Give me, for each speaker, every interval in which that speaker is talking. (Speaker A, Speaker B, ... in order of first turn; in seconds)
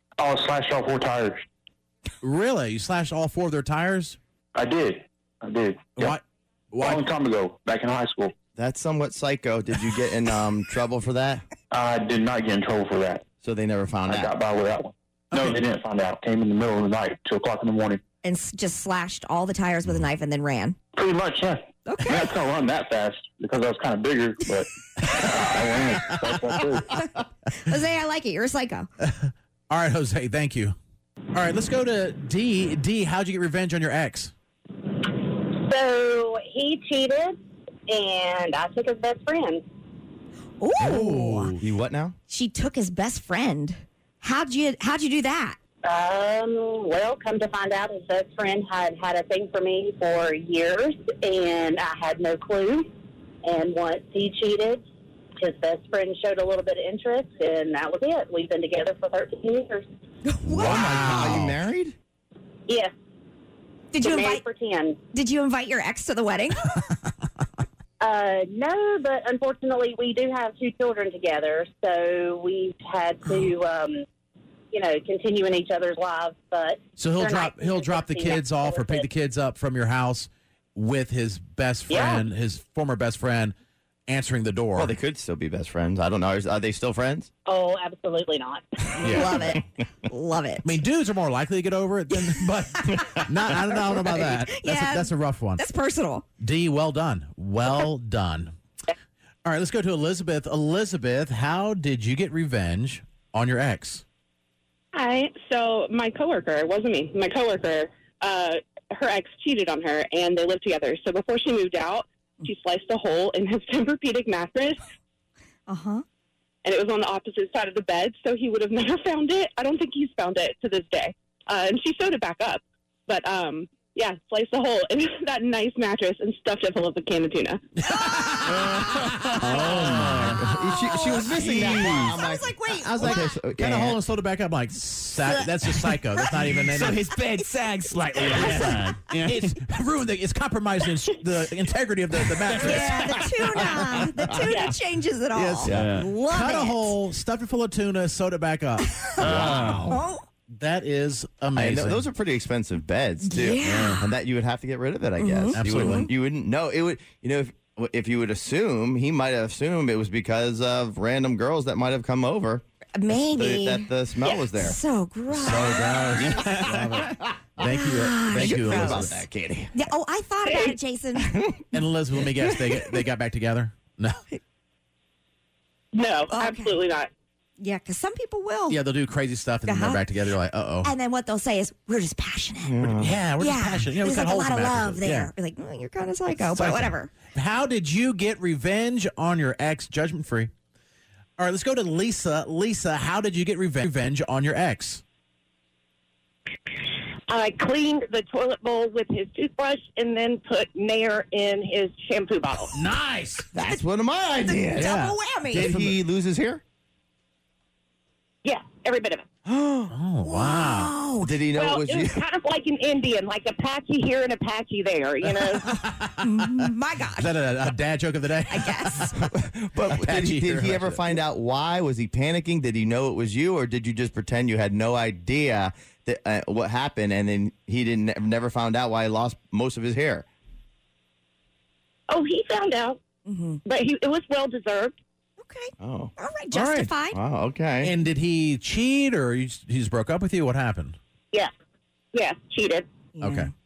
Speaker A: 0.2-1.4, 4.5-6.1, 6.8-8.3, 11.7-13.2, 14.1-18.0, 21.0-24.7, 25.2-26.8
Speaker B: 2.2-4.2, 6.0-6.2, 6.7-7.0, 29.0-30.8, 31.3-34.3, 40.8-41.6, 60.5-61.6, 77.0-83.5, 84.1-84.9, 89.0-89.5, 90.6-95.6, 96.4-98.5, 99.5-104.0, 127.8-130.3, 132.8-137.1, 138.3-143.1, 145.3-149.8, 150.5-152.1, 155.5-156.1, 166.3-167.0, 167.6-169.1, 171.7-174.2, 178.7-180.9, 182.9-185.3, 186.4-190.5, 191.4-195.0, 202.8-203.5, 204.8-206.0, 209.9-211.0, 215.7-219.2, 219.8-221.0, 236.5-236.9, 237.8-241.0, 243.2-243.5
Speaker C: 8.6-11.5, 13.4-14.3, 41.6-42.1, 60.5-62.0, 84.8-87.3, 129.6-134.0, 145.7-146.0, 149.4-149.9, 151.6-162.6, 163.4-164.8, 165.3-169.7, 171.3-171.7, 182.7-183.1, 203.5-204.9, 205.5-206.6, 209.5-209.9, 211.2-212.2, 219.2-230.3, 235.8-236.1, 237.1-237.9
Speaker D: 18.2-20.8, 21.9-22.3, 27.6-28.9, 40.6-41.5, 42.3-45.6, 60.3-60.8, 63.9-64.4, 65.1-66.9, 89.0-90.7, 92.8-93.1, 93.9-96.2, 115.7-116.0, 130.5-133.3, 135.3-136.3, 137.4-138.8, 142.6-146.9, 149.9-150.2, 153.2-154.1, 155.2-156.1, 163.0-163.9, 164.5-165.8, 167.7-169.2, 169.7-171.4, 176.3-176.8, 177.6-178.8, 179.7-180.0, 180.8-187.1, 204.5-205.7, 210.2-211.3, 216.2-217.3, 218.5-219.1, 233.3-233.6, 235.4-237.2, 243.2-243.5
Speaker E: 35.0-39.6, 45.9-52.9, 53.5-54.8, 55.4-59.9, 64.0-65.0, 68.0-74.0, 74.7-79.1, 81.9-82.2, 87.5-88.9, 144.5-144.7
Speaker F: 104.9-114.8, 116.7-127.6, 176.0-177.1
Speaker G: 128.5-130.4, 131.4-132.2, 136.3-139.5, 142.5-143.1, 145.7-146.1, 149.2-150.0, 153.6-154.0, 165.7-167.1
Speaker H: 197.3-202.8, 208.4-209.2, 211.6-215.7, 232.1-233.0, 233.6-234.9, 242.1-242.9